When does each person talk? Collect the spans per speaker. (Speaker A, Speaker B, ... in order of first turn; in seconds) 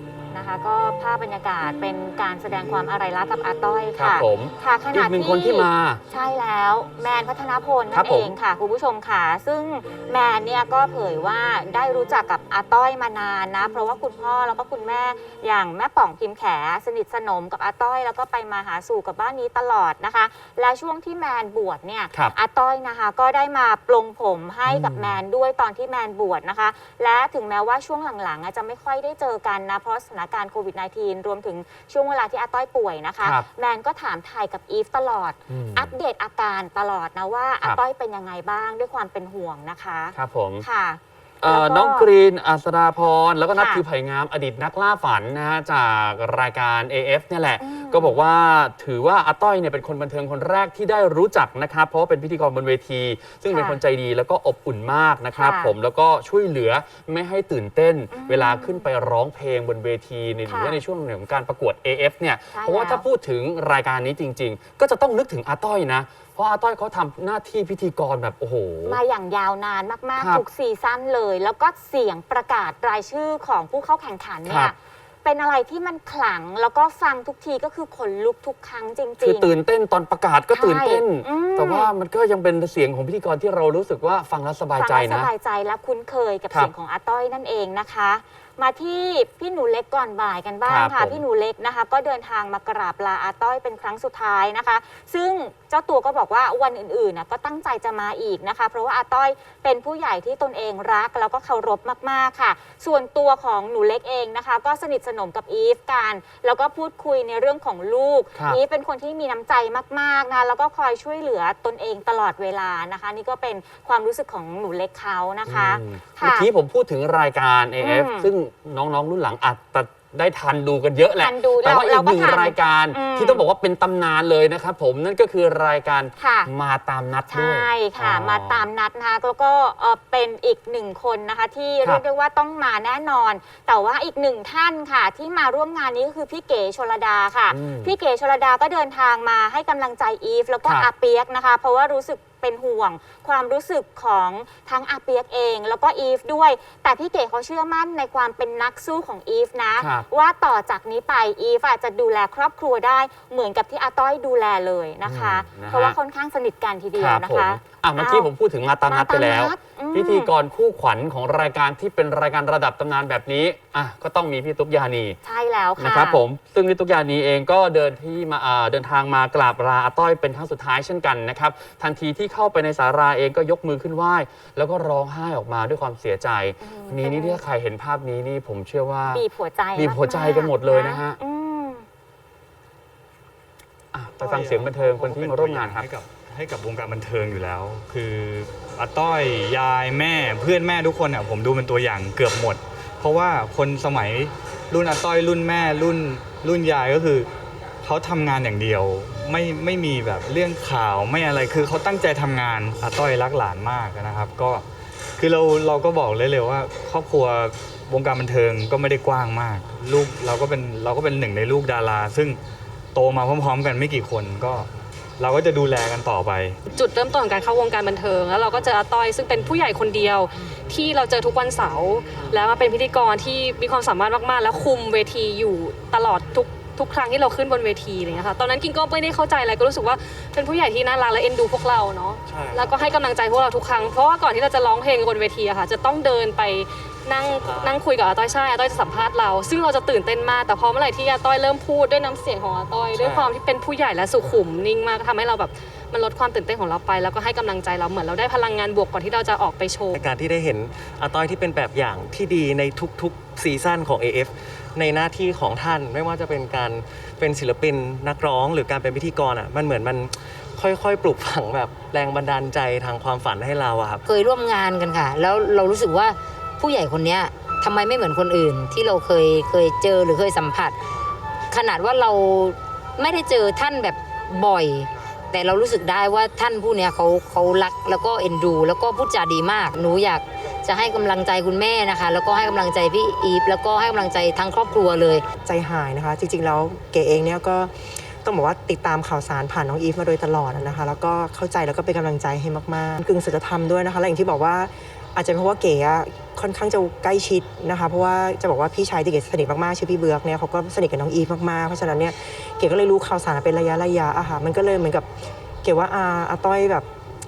Speaker A: 0.3-42.1, 43.5-43.8, 47.6-48.2, 53.5-53.8, 55.3-55.8, 58.1-58.9, 60.5-60.8, 62.5-63.0, 68.8-79.5, 80.5-81.9, 84.8-116.5, 117.8-118.3, 121.2-123.4, 126.2-126.5, 127.3-158.3, 158.9-160.3, 165.2-166.2, 176.6-177.4, 179.1-181.8
Speaker B: 4.0-6.0, 7.9-8.3, 24.7-25.2, 33.2-33.5, 35.5-36.0, 40.1-40.7, 41.4-69.0, 70.2-70.5, 74.5-74.7, 79.2-85.3, 90.7-91.2, 115.5-128.7, 137.5-137.9, 149.8-150.1, 155.0-156.0, 157.0-165.2, 165.8-179.2, 179.8-181.2, 183.9-185.9
Speaker C: 184.2-197.3, 197.8-204.7, 205.2-212.4, 212.9-216.6
Speaker D: 216.7-250.0
Speaker E: 232.3-232.8, 237.3-237.8, 243.0-243.3, 249.9-264.0
Speaker F: 264.1-270.8, 271.5-285.2
Speaker G: 285.4-305.1, 305.6-306.9